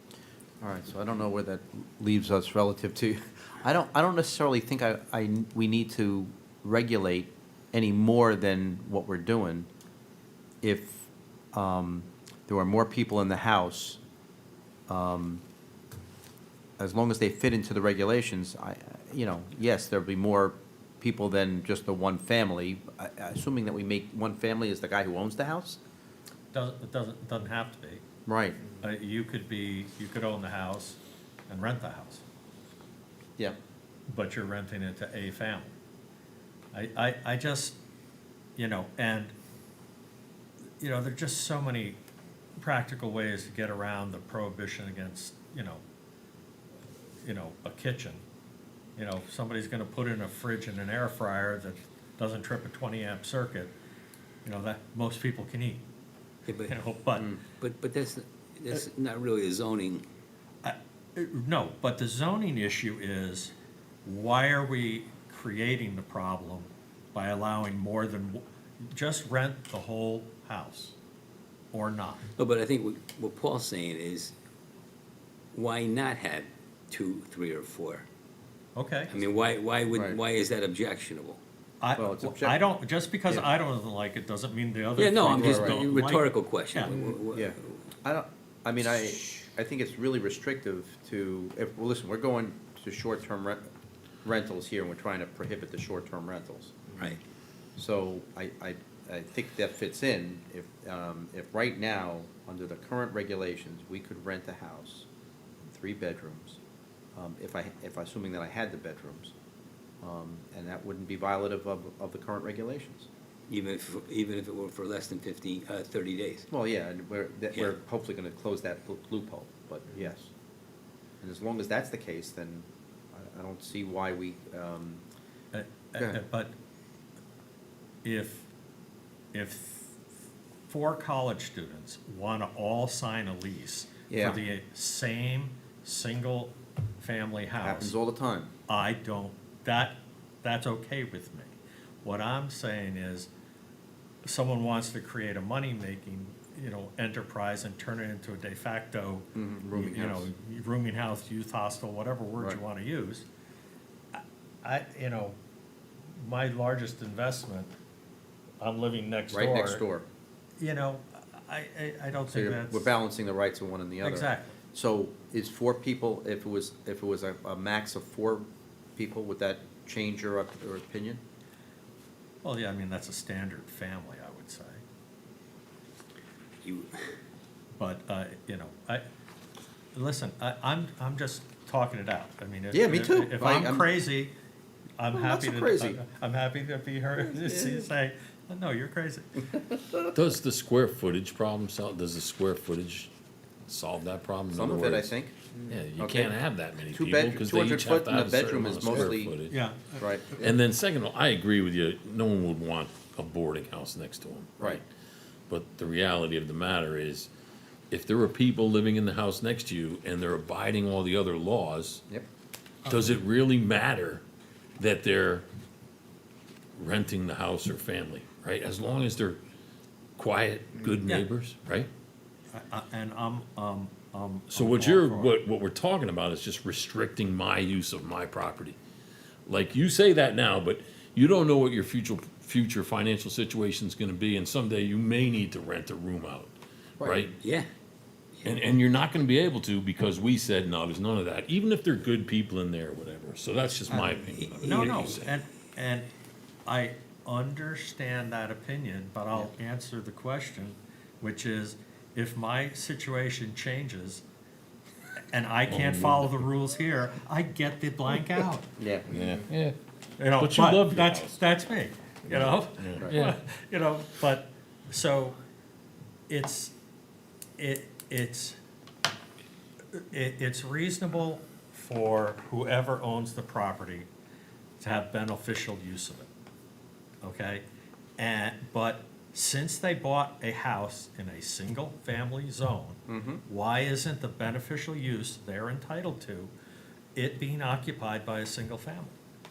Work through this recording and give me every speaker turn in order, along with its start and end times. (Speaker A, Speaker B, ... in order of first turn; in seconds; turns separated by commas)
Speaker A: 0.6-9.7, Speaker A: 10.6-14.0, Speaker A: 14.9-15.4, Speaker A: 16.8-25.8, Speaker B: 26.5-28.0, Speaker A: 28.2-28.6, Speaker B: 28.7-32.2, Speaker B: 34.1-35.7, Speaker B: 36.7-37.8, Speaker B: 38.6-39.3, Speaker B: 40.8-42.0, Speaker B: 42.6-45.8, Speaker B: 47.2-48.2, Speaker B: 49.0-53.7, Speaker B: 54.4-55.8, Speaker B: 56.6-57.3, Speaker C: 57.6-60.0, Speaker B: 60.6-63.5, Speaker B: 64.0-70.9, Speaker B: 71.7-72.2, Speaker C: 72.4-74.3, Speaker C: 75.5-78.0, Speaker B: 78.8-79.1, Speaker C: 79.1-81.4, Speaker A: 79.9-80.2, Speaker B: 81.8-86.9, Speaker A: 82.0-82.6, Speaker C: 85.0-87.8, Speaker A: 85.3-85.8, Speaker A: 87.3-93.6, Speaker A: 94.2-96.8, Speaker A: 97.8-105.1, Speaker A: 105.7-106.6, Speaker A: 107.2-109.3, Speaker A: 110.0-113.1, Speaker C: 113.5-116.5, Speaker A: 116.5-120.3, Speaker A: 121.2-125.0, Speaker B: 125.5-126.5, Speaker B: 128.0-128.5, Speaker B: 129.3-130.0, Speaker B: 130.7-137.9, Speaker A: 134.1-134.4, Speaker A: 137.6-138.5, Speaker B: 138.7-143.3, Speaker B: 144.2-153.2, Speaker A: 149.3-150.3, Speaker B: 154.1-155.3, Speaker B: 156.2-157.7, Speaker B: 158.6-159.8, Speaker A: 159.3-160.1, Speaker B: 160.6-162.9, Speaker A: 162.3-168.4, Speaker B: 164.0-164.5, Speaker A: 168.9-171.2, Speaker B: 172.4-174.8, Speaker C: 176.6-177.0, Speaker B: 177.8-179.0, Speaker B: 179.9-184.3, Speaker A: 182.7-183.9, Speaker B: 185.0-189.4, Speaker A: 185.1-186.0, Speaker A: 187.2-187.9, Speaker D: 190.1-193.1, Speaker D: 193.7-195.0, Speaker A: 194.5-195.5, Speaker D: 195.7-199.6, Speaker A: 196.0-196.3, Speaker A: 196.9-199.3, Speaker B: 199.5-200.1, Speaker A: 200.0-200.2, Speaker D: 200.4-204.8, Speaker D: 205.5-207.3, Speaker D: 207.9-212.0, Speaker D: 212.9-214.2, Speaker D: 214.8-215.4, Speaker D: 216.8-219.4, Speaker D: 220.2-221.9, Speaker B: 222.5-225.4, Speaker D: 224.6-228.8, Speaker D: 229.5-237.3, Speaker A: 237.0-237.2, Speaker C: 237.3-237.7, Speaker D: 238.4-245.2, Speaker B: 243.9-246.1, Speaker C: 244.3-245.1, Speaker B: 246.7-254.2, Speaker B: 255.3-258.7, Speaker D: 255.7-256.1, Speaker A: 258.8-259.1, Speaker D: 259.1-259.7, Speaker B: 260.2-265.4, Speaker D: 260.4-261.4, Speaker D: 262.4-263.3, Speaker B: 266.3-266.7, Speaker B: 267.6-268.6, Speaker B: 269.9-274.1, Speaker B: 274.8-276.3, Speaker B: 277.2-277.6, Speaker B: 278.2-286.5, Speaker A: 283.1-283.4, Speaker B: 287.1-289.1